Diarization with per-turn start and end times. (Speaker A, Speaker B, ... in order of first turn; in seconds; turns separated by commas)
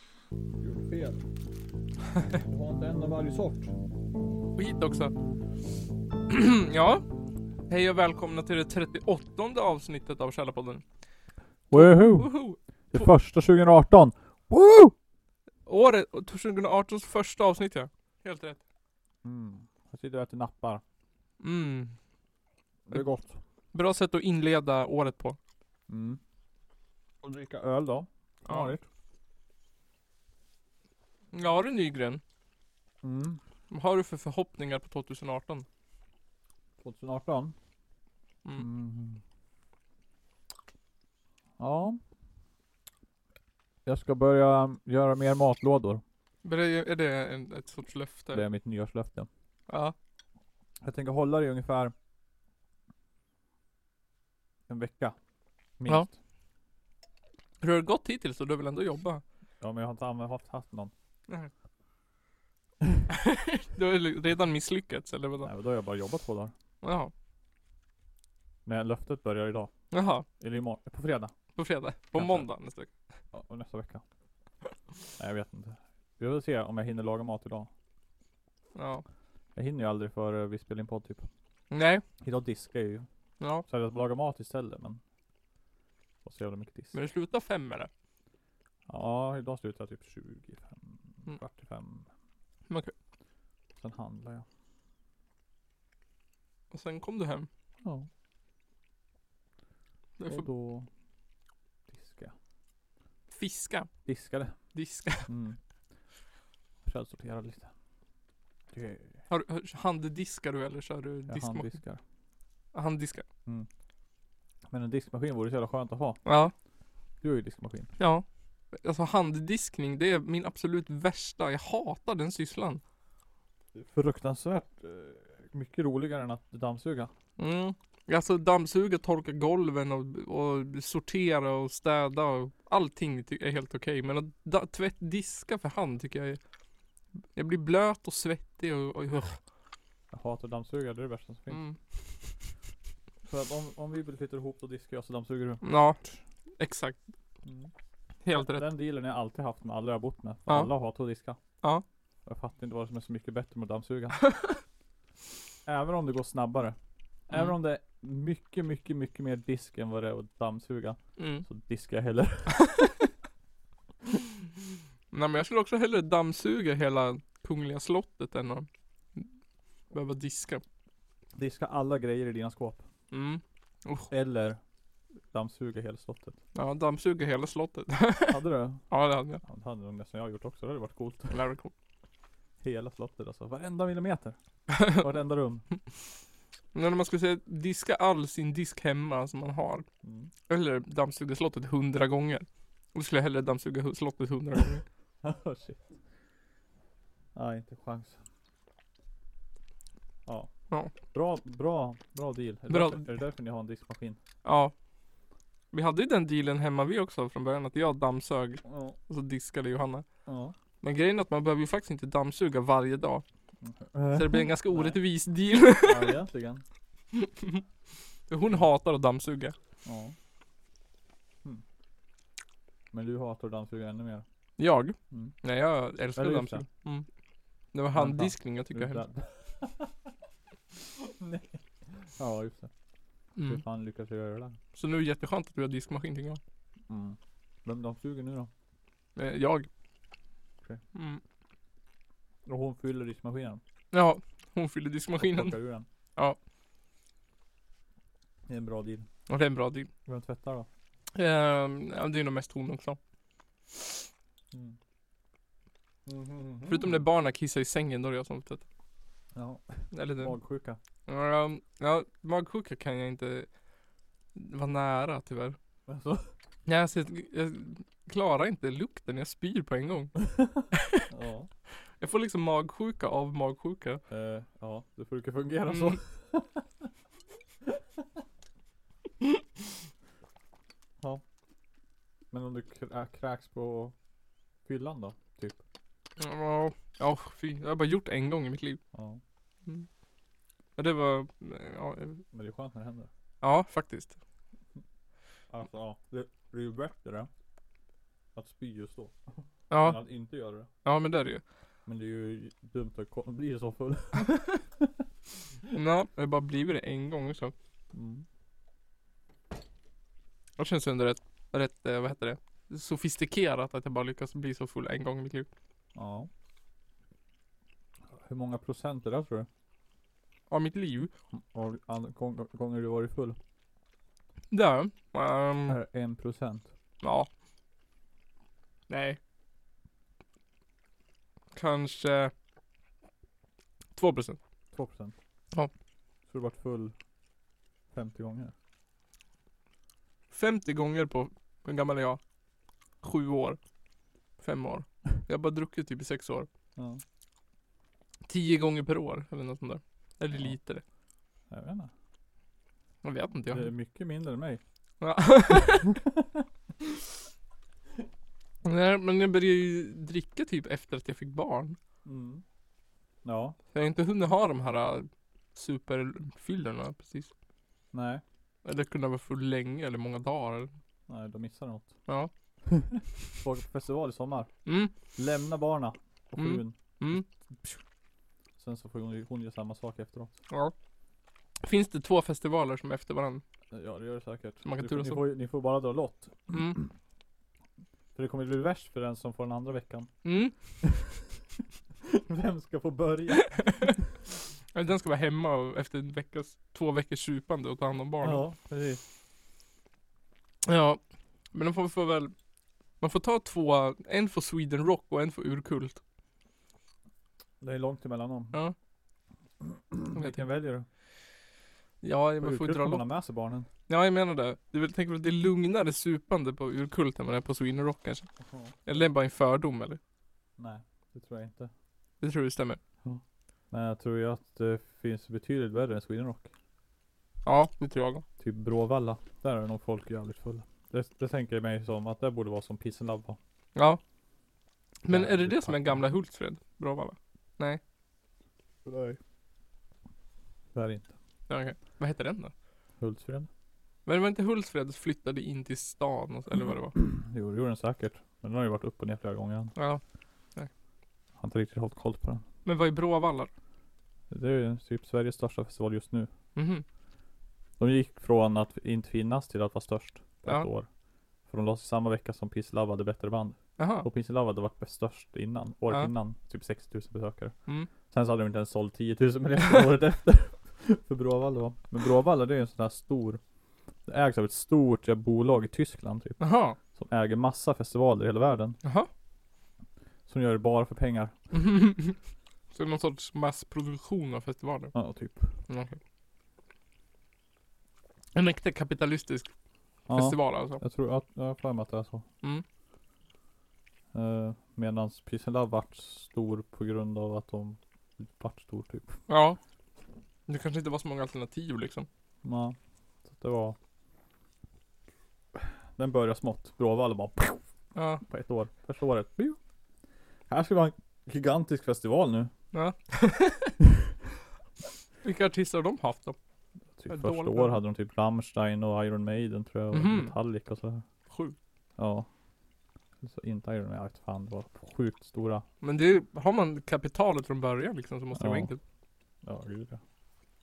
Speaker A: 0.6-1.2, Speaker A: 2.4-3.8, Speaker B: 4.6-5.2, Speaker B: 6.3-7.0, Speaker B: 7.7-10.8, Speaker A: 11.7-12.3, Speaker B: 11.7-13.1, Speaker A: 12.9-14.9, Speaker B: 15.7-18.6, Speaker A: 19.2-20.8, Speaker B: 21.4-22.0, Speaker A: 22.9-23.4, Speaker B: 23.7-25.4, Speaker A: 25.9-26.2, Speaker A: 27.2-28.9, Speaker B: 28.5-28.8, Speaker B: 31.3-32.2, Speaker A: 33.0-33.4, Speaker B: 33.7-35.7, Speaker A: 36.8-37.5, Speaker A: 38.6-39.2, Speaker A: 41.6-42.0, Speaker A: 43.9-46.0, Speaker B: 46.4-48.5, Speaker A: 48.3-49.3, Speaker B: 49.7-50.0, Speaker A: 50.8-51.9, Speaker A: 54.7-55.2, Speaker A: 55.8-56.1, Speaker B: 57.6-59.2, Speaker A: 59.6-60.9, Speaker B: 63.1-65.5, Speaker A: 65.4-66.5, Speaker B: 66.8-67.1, Speaker A: 68.7-69.7, Speaker B: 69.9-70.3, Speaker A: 70.4-71.3, Speaker B: 71.6-72.9, Speaker A: 72.2-72.5, Speaker A: 73.3-74.0, Speaker A: 75.2-77.7, Speaker B: 78.8-79.0, Speaker A: 79.5-81.2, Speaker B: 81.7-82.0, Speaker A: 82.2-83.1, Speaker B: 83.4-83.7, Speaker A: 83.7-85.0, Speaker A: 86.2-87.0, Speaker B: 86.9-87.9, Speaker A: 88.9-92.1, Speaker A: 93.8-94.5, Speaker B: 96.7-97.5, Speaker B: 100.2-100.5, Speaker A: 100.3-100.9, Speaker A: 101.9-102.3, Speaker B: 103.3-103.9, Speaker A: 104.1-104.5, Speaker B: 104.7-105.3, Speaker A: 105.3-105.6, Speaker A: 106.8-107.7, Speaker A: 108.7-109.2, Speaker B: 109.3-111.7, Speaker A: 111.3-112.0, Speaker B: 112.7-113.3, Speaker A: 114.7-116.2, Speaker B: 116.2-116.5, Speaker A: 117.2-117.9, Speaker B: 118.0-122.8, Speaker A: 123.8-127.1, Speaker B: 127.4-136.4, Speaker B: 137.3-139.4, Speaker A: 140.1-141.6, Speaker B: 141.5-141.8, Speaker A: 143.2-145.6, Speaker B: 145.6-146.0, Speaker B: 146.6-147.0, Speaker A: 147.4-147.7, Speaker B: 148.2-148.7, Speaker A: 148.3-151.4, Speaker A: 152.2-154.2, Speaker A: 155.7-156.8, Speaker A: 157.3-162.6, Speaker B: 161.2-161.4, Speaker B: 162.6-163.0, Speaker B: 165.1-169.3, Speaker B: 169.9-170.6, Speaker A: 171.4-172.8, Speaker B: 173.1-174.1, Speaker A: 174.1-174.6, Speaker A: 175.3-176.4, Speaker B: 176.6-179.4, Speaker A: 178.3-178.8, Speaker A: 179.4-181.4, Speaker B: 181.3-181.7, Speaker A: 182.6-185.7, Speaker B: 184.7-185.0, Speaker B: 186.7-189.9, Speaker A: 190.0-190.3, Speaker B: 190.5-194.8, Speaker A: 195.2-196.0, Speaker A: 197.3-198.2, Speaker A: 201.1-204.2, Speaker B: 202.7-203.0, Speaker B: 204.4-204.7, Speaker B: 205.7-210.1, Speaker A: 208.7-209.0, Speaker A: 210.3-210.5, Speaker B: 210.8-213.2, Speaker A: 213.6-215.0, Speaker B: 214.1-216.2, Speaker A: 215.8-216.6, Speaker B: 217.1-217.6, Speaker B: 218.3-219.6, Speaker A: 219.8-220.2, Speaker A: 222.9-224.2, Speaker B: 224.6-227.1, Speaker A: 226.2-226.7, Speaker B: 227.7-229.0, Speaker A: 227.9-229.9, Speaker A: 230.9-232.7, Speaker B: 233.4-233.6, Speaker A: 233.4-234.6, Speaker B: 234.7-236.4, Speaker A: 236.9-238.5, Speaker B: 239.2-239.7, Speaker B: 240.9-241.2, Speaker A: 242.5-243.6, Speaker B: 243.9-245.6, Speaker A: 245.2-245.9, Speaker A: 248.5-249.1, Speaker B: 249.3-249.9, Speaker A: 250.1-250.7, Speaker B: 251.2-253.0, Speaker A: 256.1-257.0, Speaker B: 256.7-258.6, Speaker A: 259.3-260.8, Speaker B: 259.9-260.4, Speaker B: 261.1-263.5, Speaker B: 264.4-265.6, Speaker A: 265.9-266.3, Speaker B: 266.7-270.2, Speaker A: 270.4-271.5, Speaker B: 270.7-271.1, Speaker B: 272.0-274.0, Speaker A: 274.1-276.7, Speaker B: 275.7-276.0, Speaker A: 277.7-278.0, Speaker A: 282.3-283.9, Speaker A: 284.6-285.6, Speaker B: 286.2-288.8, Speaker A: 288.9-289.2, Speaker B: 290.8-292.2, Speaker A: 292.3-293.1, Speaker B: 293.4-294.2, Speaker A: 295.5-297.3, Speaker A: 298.4-300.7, Speaker B: 299.7-300.0, Speaker B: 300.9-301.4, Speaker A: 301.9-305.0, Speaker B: 304.3-304.5, Speaker B: 305.7-307.5, Speaker A: 307.9-308.2, Speaker B: 310.6-315.5, Speaker A: 315.9-316.3, Speaker A: 318.1-319.5, Speaker B: 320.5-321.1, Speaker A: 321.3-323.4, Speaker B: 324.5-325.8, Speaker A: 325.7-326.7, Speaker B: 327.0-327.3, Speaker B: 328.9-329.2, Speaker B: 331.6-332.3, Speaker B: 334.0-334.4, Speaker A: 334.7-335.2, Speaker A: 336.3-336.9, Speaker A: 337.9-338.5, Speaker B: 340.3-342.2, Speaker B: 343.0-343.6, Speaker B: 344.4-346.5, Speaker A: 346.8-347.0, Speaker B: 348.3-350.8, Speaker A: 351.5-351.9, Speaker B: 353.0-353.7, Speaker A: 353.5-354.6, Speaker B: 355.0-355.9, Speaker A: 355.9-356.4, Speaker B: 358.6-361.8, Speaker A: 362.1-362.4, Speaker A: 363.2-363.6, Speaker B: 363.7-367.3, Speaker A: 367.9-368.2, Speaker B: 368.6-370.7, Speaker A: 371.1-371.9, Speaker A: 372.7-374.5, Speaker B: 374.7-374.9, Speaker A: 375.1-377.8, Speaker B: 376.4-377.3, Speaker A: 378.6-380.4, Speaker B: 381.6-383.4, Speaker A: 383.7-386.9, Speaker B: 384.6-385.2, Speaker B: 386.5-386.8, Speaker A: 388.1-390.1, Speaker B: 390.2-390.6, Speaker A: 390.8-391.2, Speaker A: 392.1-394.1, Speaker B: 393.6-393.9, Speaker B: 394.7-398.4, Speaker A: 398.2-399.0, Speaker B: 400.6-401.0, Speaker B: 401.5-402.3, Speaker B: 403.0-406.0, Speaker A: 407.6-408.6, Speaker A: 409.6-410.9, Speaker B: 412.0-413.0, Speaker A: 412.4-413.7, Speaker B: 413.9-418.3, Speaker A: 418.4-418.8, Speaker B: 418.9-420.0, Speaker A: 420.6-421.7, Speaker B: 422.2-422.8, Speaker A: 423.0-426.5, Speaker B: 427.4-428.2, Speaker A: 428.4-433.4, Speaker B: 433.8-434.0, Speaker B: 435.0-437.8, Speaker A: 435.1-436.0, Speaker A: 438.9-439.2, Speaker A: 440.7-441.1, Speaker B: 441.5-442.5, Speaker A: 443.0-443.5, Speaker B: 444.1-446.9, Speaker A: 446.9-449.7, Speaker B: 449.8-450.0, Speaker A: 451.4-452.4, Speaker B: 452.6-453.5, Speaker A: 454.3-456.3, Speaker B: 456.6-456.8, Speaker A: 457.8-460.9, Speaker A: 461.5-467.5, Speaker B: 463.8-464.1, Speaker A: 468.1-473.4, Speaker A: 474.1-476.4, Speaker B: 476.4-476.8, Speaker A: 476.9-478.8, Speaker B: 478.8-479.1, Speaker A: 480.3-481.3, Speaker B: 481.5-482.2, Speaker B: 482.7-484.9, Speaker A: 484.9-485.5, Speaker B: 485.7-486.0, Speaker B: 488.4-489.5, Speaker A: 490.1-492.2, Speaker B: 490.1-490.8, Speaker A: 494.1-499.2, Speaker B: 499.3-499.6, Speaker B: 500.5-502.1, Speaker A: 502.4-503.8, Speaker A: 505.6-507.6, Speaker B: 507.9-508.2, Speaker A: 508.2-509.6, Speaker A: 510.5-512.5, Speaker B: 512.7-513.8, Speaker B: 515.2-516.4, Speaker A: 517.0-521.0, Speaker B: 517.1-517.8, Speaker B: 519.9-520.4, Speaker B: 521.3-521.6, Speaker A: 522.0-522.3, Speaker A: 523.2-525.6, Speaker B: 525.8-528.8, Speaker A: 528.4-528.7, Speaker A: 529.4-530.0